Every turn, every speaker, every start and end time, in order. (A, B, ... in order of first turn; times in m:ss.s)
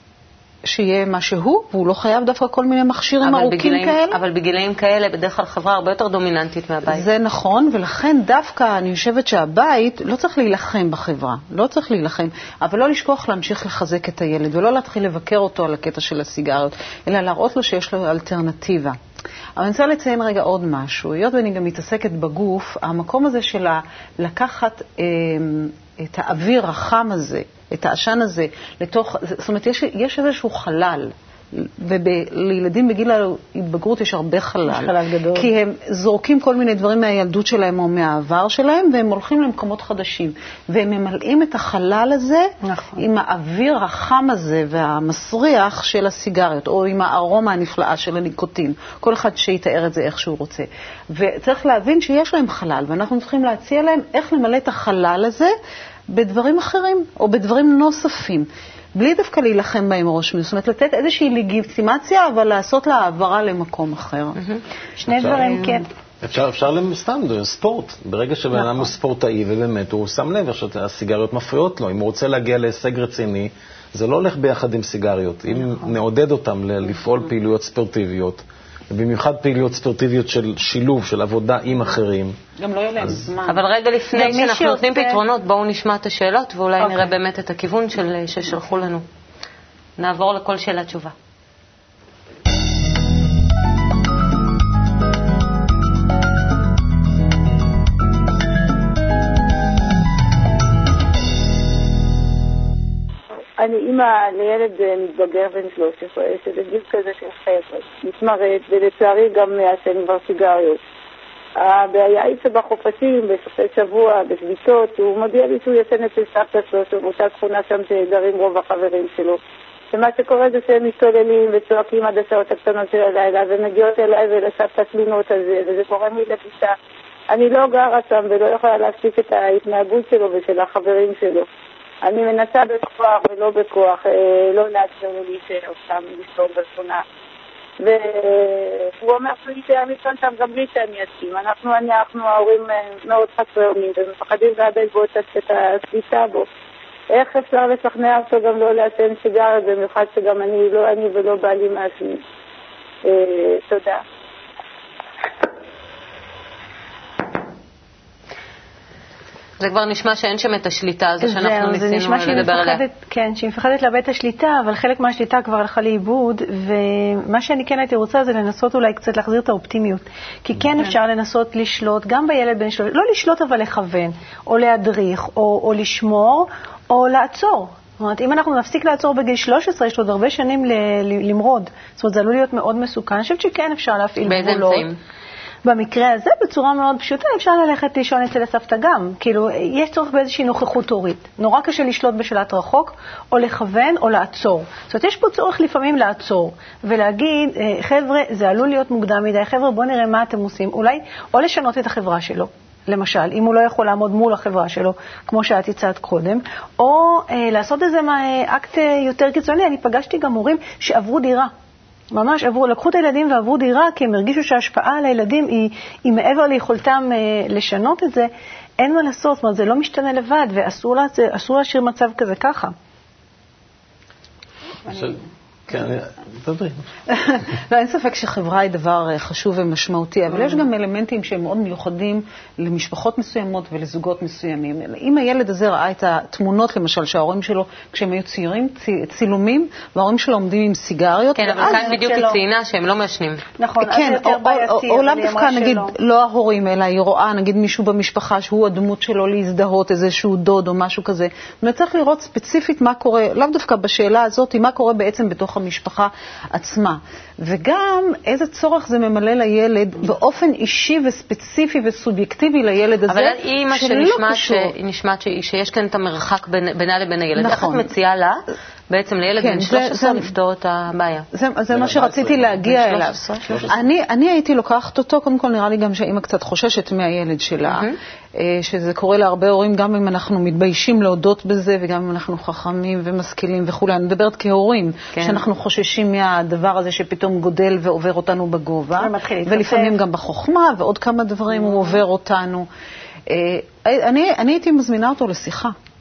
0:00.7-0:04.2 A
0:03.2-0:07.1 B
0:06.9-0:19.0 A
0:19.6-0:55.5 A
0:34.7-0:35.5 C
0:42.6-0:43.0 C
0:56.1-1:04.4 A
1:05.0-1:05.9 C
1:05.1-1:05.5 D
1:05.2-1:05.8 A
1:06.2-1:22.4 D
1:22.6-1:23.6 A
1:23.5-1:29.0 B
1:24.1-1:25.2 C
1:30.0-1:31.2 B
1:43.6-1:50.8 E
1:51.6-1:59.4 E
1:59.9-2:06.8 E
2:07.3-2:11.5 E
2:12.0-2:17.0 E
2:17.8-2:26.5 E
2:27.1-2:32.2 E
2:33.0-2:34.0 E
2:39.6-2:42.8 B
2:41.2-3:04.9 C
3:04.2-3:05.0 B
3:05.6-3:31.5 C
3:32.1-3:42.7 C
3:44.9-3:46.8 D
3:47.1-4:02.0 A
4:01.4-4:03.4 B
4:01.6-4:02.4 C
4:03.6-4:05.9 C
4:03.8-4:24.7 A
4:23.1-4:31.3 B
4:27.4-4:27.9 A
4:29.4-4:30.3 A
4:31.3-4:52.7 A
4:31.7-4:32.7 D
4:32.6-4:33.5 B
4:33.4-4:33.8 D
4:37.7-4:38.0 B
4:45.1-4:45.4 B
4:49.0-4:50.0 C
4:53.3-4:55.8 A